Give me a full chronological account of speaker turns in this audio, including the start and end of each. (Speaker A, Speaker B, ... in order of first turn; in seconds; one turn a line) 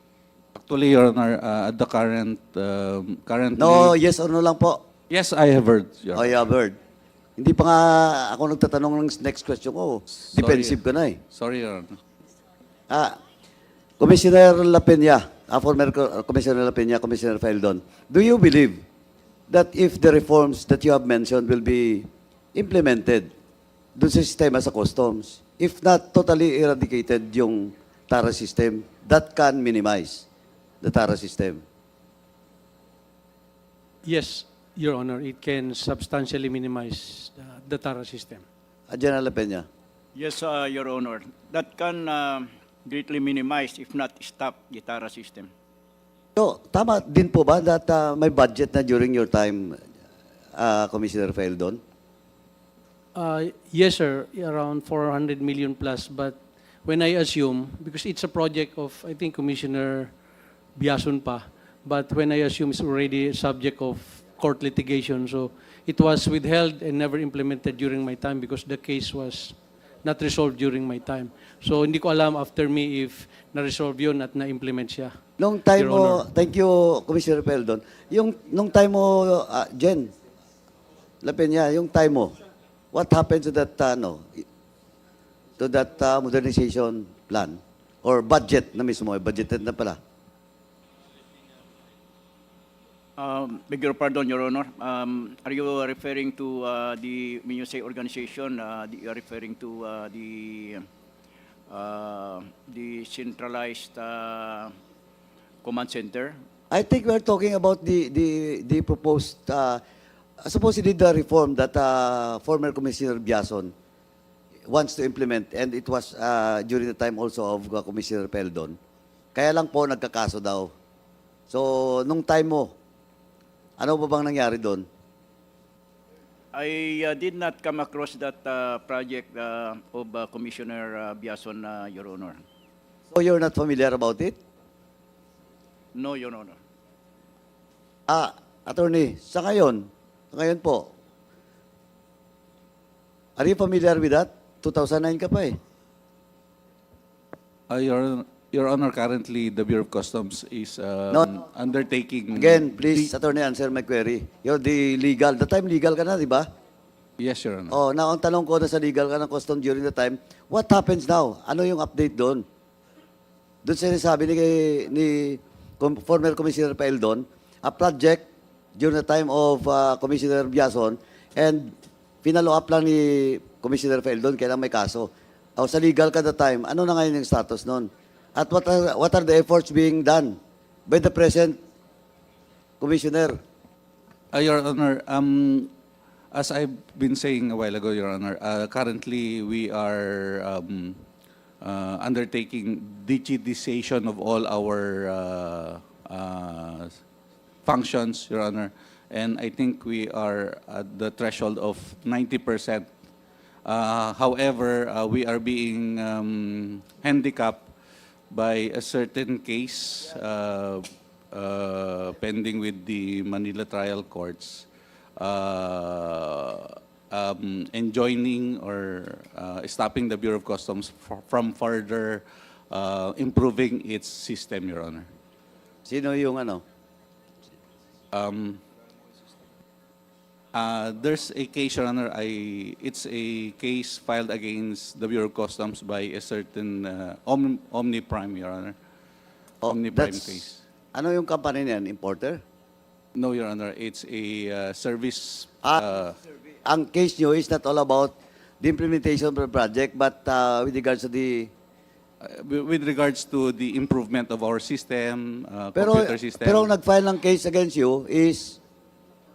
Speaker A: 0.5-4.0
Speaker B: 3.6-4.8
Speaker A: 5.1-6.4
Speaker B: 6.1-6.8
Speaker B: 7.4-11.2
Speaker A: 10.3-12.0
Speaker B: 12.9-13.2
Speaker B: 14.0-18.8
Speaker B: 19.5-23.3
Speaker B: 23.9-30.2
Speaker B: 30.8-31.6
Speaker C: 34.0-38.4
Speaker B: 38.9-39.6
Speaker D: 40.1-45.5
Speaker B: 46.4-49.8
Speaker B: 50.5-51.8
Speaker C: 53.1-60.2
Speaker C: 60.7-75.2
Speaker B: 75.4-80.1
Speaker C: 75.7-76.2
Speaker B: 81.2-82.3
Speaker B: 82.9-84.4
Speaker B: 85.6-90.0
Speaker D: 93.2-100.8
Speaker D: 101.7-104.7
Speaker D: 105.6-106.4
Speaker B: 106.7-109.8
Speaker B: 110.4-113.7
Speaker B: 114.7-118.8
Speaker B: 119.3-120.7
Speaker B: 121.5-122.7
Speaker B: 123.8-124.8
Speaker D: 126.5-132.4
Speaker B: 133.1-134.3
Speaker D: 135.9-136.6
Speaker B: 138.1-140.9
Speaker B: 143.4-145.6
Speaker A: 147.7-153.1
Speaker B: 152.3-156.5
Speaker A: 157.2-157.8
Speaker B: 157.7-162.4
Speaker B: 163.6-168.2
Speaker B: 168.8-181.6
Speaker B: 182.8-183.4
Speaker A: 184.3-185.7
Speaker A: 186.3-191.0
Speaker A: 191.6-197.0
Speaker A: 197.6-202.9
Speaker A: 203.6-207.7
Speaker A: 208.3-225.1
Speaker B: 225.8-226.6
Speaker A: 228.1-228.6
Speaker A: 230.5-238.8
Speaker B: 239.6-242.4
Speaker A: 239.7-240.6
Speaker A: 243.1-246.2
Speaker B: 246.6-251.5
Speaker A: 252.2-256.7
Speaker B: 255.7-258.6